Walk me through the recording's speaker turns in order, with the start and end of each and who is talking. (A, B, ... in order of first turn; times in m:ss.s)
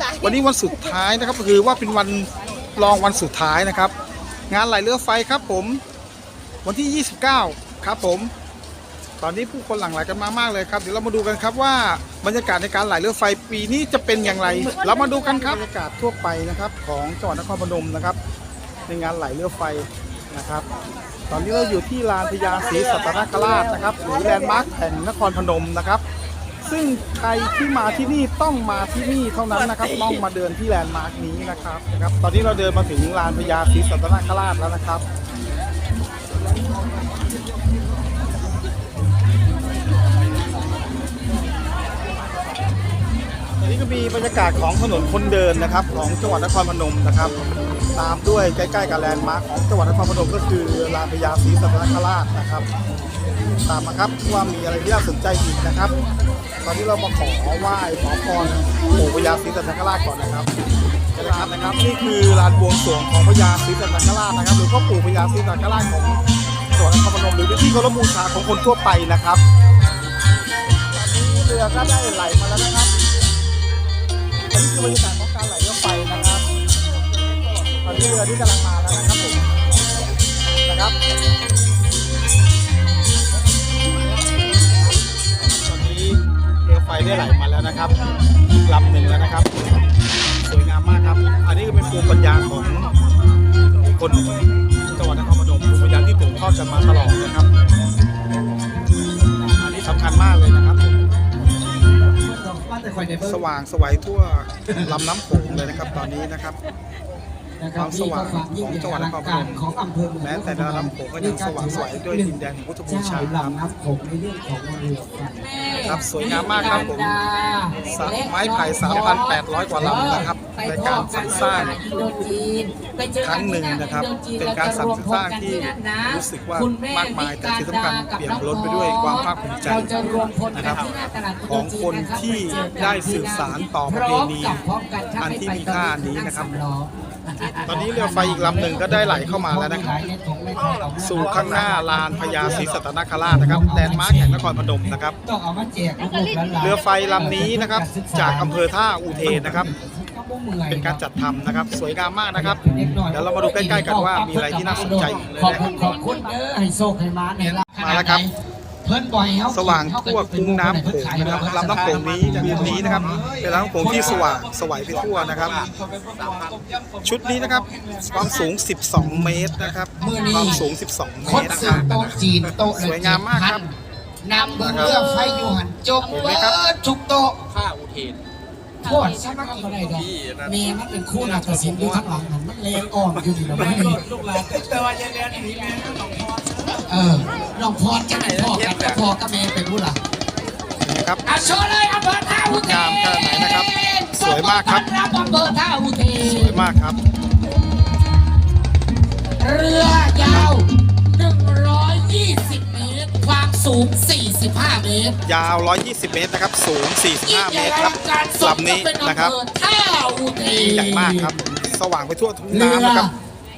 0:00.2-0:03.9 A
0:04.5-0:05.8 A
0:06.6-0:08.3 A
0:09.2-0:18.2 A
0:18.9-0:20.6 A
0:21.3-0:26.0 A
0:26.6-0:35.0 A
0:43.6-0:47.3 A
0:48.0-0:52.6 A
0:53.7-0:55.9 A
0:56.6-1:00.5 A
1:01.1-1:06.2 A
1:06.8-1:09.4 A
1:10.9-1:12.9 A
1:14.5-1:16.4 A
1:17.8-1:19.4 A
1:20.7-1:21.0 A
1:25.4-1:27.9 A
1:28.6-1:29.6 A
1:30.4-1:32.9 A
1:33.8-1:37.5 A
1:39.8-1:41.0 A
1:42.2-1:43.4 B
1:43.2-1:46.6 A
1:44.7-1:46.0 B
1:47.6-2:22.7 B
1:47.8-1:49.6 A
1:50.2-1:53.6 A
1:55.8-1:57.2 A
1:57.9-2:01.8 A
2:03.2-2:09.9 A
2:10.5-2:10.8 A
2:11.5-2:14.6 A
2:15.2-2:16.5 A
2:17.7-2:19.9 A
2:21.0-2:25.1 A
2:23.2-2:28.6 B
2:26.6-2:29.7 A
2:29.1-2:31.0 B
2:30.7-2:35.6 A
2:32.3-2:38.3 B
2:34.9-2:35.8 C
2:37.6-2:38.2 A
2:38.8-2:48.3 B
2:39.5-2:45.6 A
2:41.2-2:48.1 C
2:47.0-2:53.6 A
2:49.0-2:50.7 B
2:51.2-2:57.4 B
2:54.6-2:55.0 A
2:56.1-2:56.6 A
2:57.4-2:58.2 C
2:58.8-3:05.9 B
3:01.3-3:02.0 C
3:03.5-3:06.8 C
3:03.6-3:03.8 A
3:06.9-3:10.0 B
3:08.1-3:09.0 C
3:10.8-3:11.2 A
3:11.2-3:16.6 B
3:12.5-3:14.9 A
3:16.2-3:17.0 A
3:19.4-3:25.2 B
3:20.2-3:20.6 A
3:25.2-3:29.4 A
3:27.2-3:31.4 B
3:30.5-3:33.1 A
3:32.5-3:33.1 B